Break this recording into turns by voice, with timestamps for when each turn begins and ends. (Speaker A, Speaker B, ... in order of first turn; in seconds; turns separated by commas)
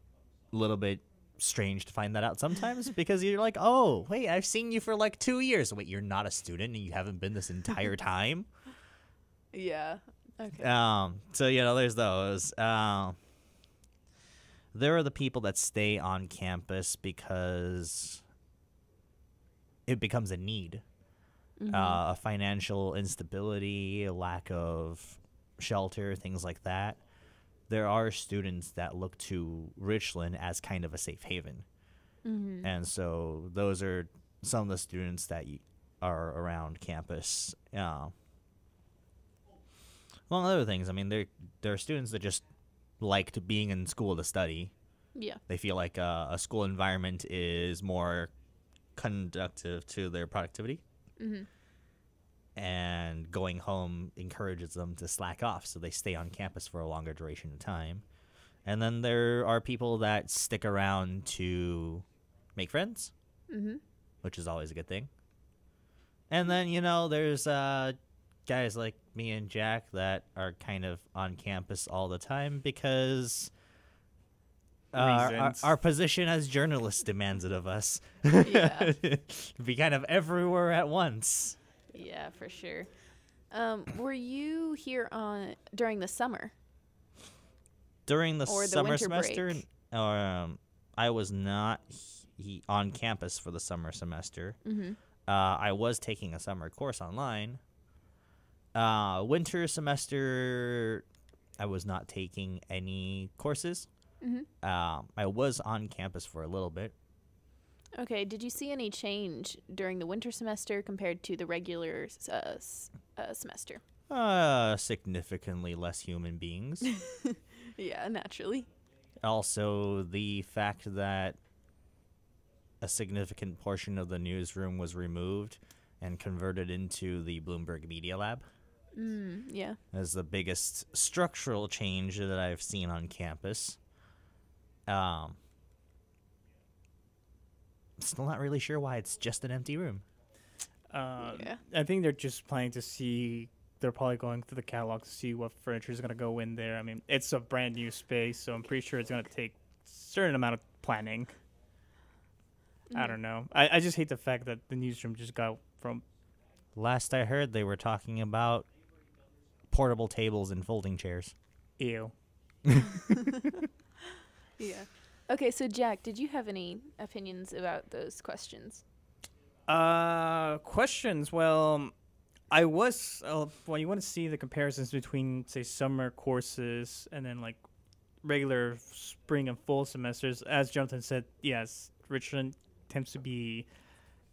Speaker A: 0.5-8.5, Speaker B: 9.5-10.7, Speaker A: 10.6-13.2, Speaker A: 14.7-18.2, Speaker A: 19.9-20.8, Speaker B: 21.6-22.0, Speaker A: 21.7-27.0, Speaker A: 27.7-31.6, Speaker B: 32.2-32.7, Speaker A: 32.6-38.1, Speaker A: 40.3-42.4, Speaker A: 43.0-44.7, Speaker B: 45.1-45.4, Speaker A: 45.5-48.3, Speaker A: 49.0-50.8, Speaker B: 51.2-51.5, Speaker A: 52.6-58.0, Speaker A: 58.6-63.1, Speaker B: 63.5-63.8, Speaker A: 64.2-65.1, Speaker A: 66.3-73.5, Speaker A: 74.9-81.6, Speaker C: 74.9-75.7, Speaker B: 78.4-78.9, Speaker B: 81.9-82.9, Speaker B: 83.5-86.5, Speaker A: 88.1-94.6, Speaker B: 88.5-89.6, Speaker B: 94.6-95.0, Speaker A: 95.3-97.6, Speaker A: 98.8-101.0, Speaker A: 101.6-103.9, Speaker B: 104.2-104.5, Speaker A: 104.6-106.9, Speaker B: 108.0-113.8, Speaker A: 114.1-116.9, Speaker B: 117.0-118.7, Speaker A: 119.2-121.4, Speaker A: 122.8-128.5, Speaker B: 128.9-129.8, Speaker A: 129.9-133.8, Speaker A: 134.9-135.4, Speaker A: 138.0-140.1, Speaker C: 140.9-151.3, Speaker B: 141.2-141.6, Speaker B: 152.9-153.2, Speaker C: 152.9-156.0, Speaker A: 156.8-158.7, Speaker A: 159.7-161.3, Speaker C: 161.8-162.1, Speaker B: 164.6-168.8, Speaker C: 169.7-171.9, Speaker C: 172.5-177.6, Speaker C: 178.2-183.7